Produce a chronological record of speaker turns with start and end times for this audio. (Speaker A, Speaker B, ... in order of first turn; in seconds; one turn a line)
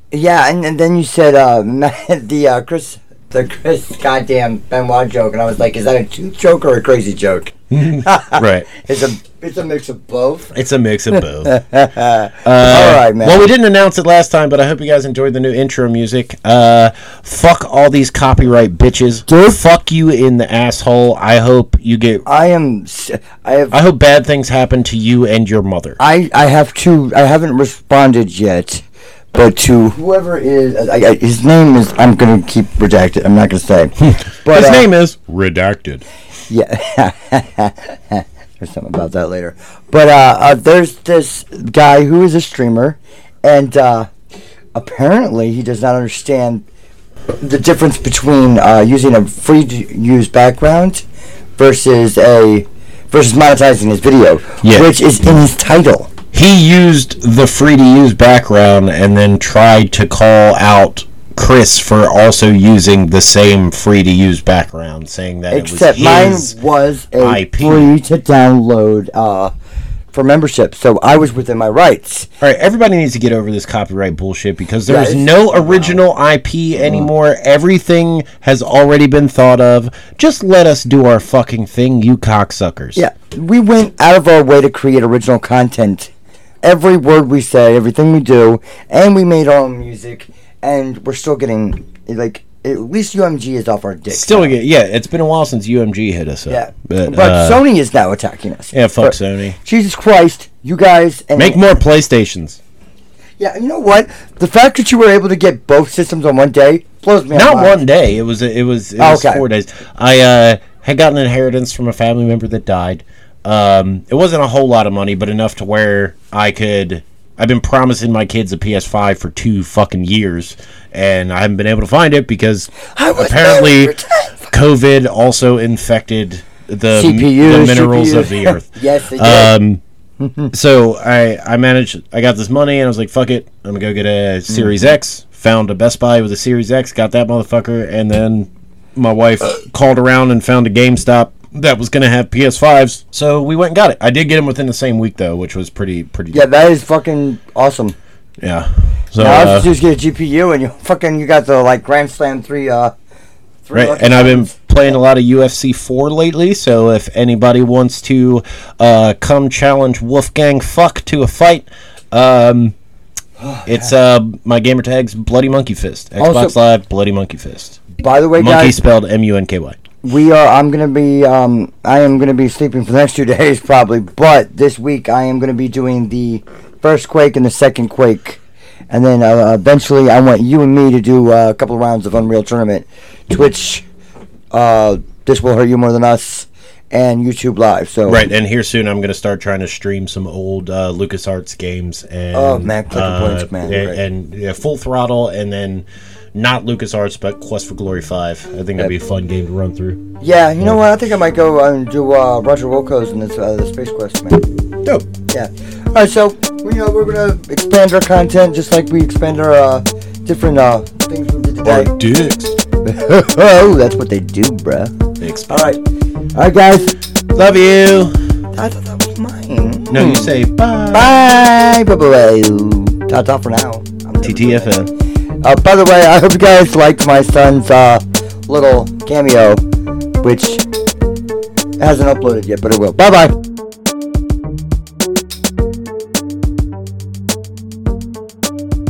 Speaker A: 0.1-10.5
Speaker B: 7.7-8.7
Speaker B: 10.5-11.6
Speaker A: 11.4-13.5
Speaker B: 12.4-22.2
Speaker A: 22.2-23.8
Speaker B: 23.7-26.0
Speaker A: 26.0-34.8
Speaker B: 34.0-36.0
Speaker A: 36.5-44.1
Speaker A: 44.7-46.6
Speaker A: 47.4-51.0
Speaker A: 51.6-56.1
Speaker B: 54.6-54.9
Speaker B: 56.3-66.5
Speaker A: 65.5-69.5
Speaker B: 67.2-67.9
Speaker A: 70.1-72.3
Speaker B: 72.4-83.0
Speaker A: 74.9-76.0
Speaker A: 76.8-77.1
Speaker A: 82.9-86.1
Speaker A: 86.6-94.5
Speaker B: 94.1-97.6
Speaker A: 96.5-101.6
Speaker B: 98.7-99.5
Speaker B: 101.3-102.6
Speaker A: 103.4-107.8
Speaker B: 107.3-123.9
Speaker A: 109.0-109.4
Speaker A: 122.9-124.5
Speaker B: 124.5-129.8
Speaker A: 126.9-129.5
Speaker A: 130.2-130.5
Speaker B: 130.5-146.4
Speaker A: 134.5-134.8
Speaker A: 146.3-147.9
Speaker B: 148.4-149.7
Speaker A: 149.2-152.9
Speaker A: 153.7-154.5
Speaker B: 153.7-162.7
Speaker A: 163.4-163.9
Speaker B: 163.7-167.8
Speaker A: 166.2-166.5
Speaker A: 168.0-168.7
Speaker B: 168.4-169.8
Speaker A: 170.0-183.8
Speaker A: 184.5-188.2
Speaker B: 188.1-200.0
Speaker A: 192.3-194.0
Speaker A: 200.2-204.5
Speaker B: 204.8-205.1
Speaker A: 205.3-211.9
Speaker B: 211.6-212.5
Speaker A: 212.8-214.9
Speaker B: 215.2-215.7
Speaker A: 215.5-215.8
Speaker A: 216.3-216.9
Speaker B: 217.3-218.1
Speaker A: 218.5-220.3
Speaker B: 219.9-221.1
Speaker A: 220.9-224.7
Speaker B: 224.2-224.9
Speaker A: 225.4-229.6
Speaker A: 230.2-230.6
Speaker A: 231.8-233.4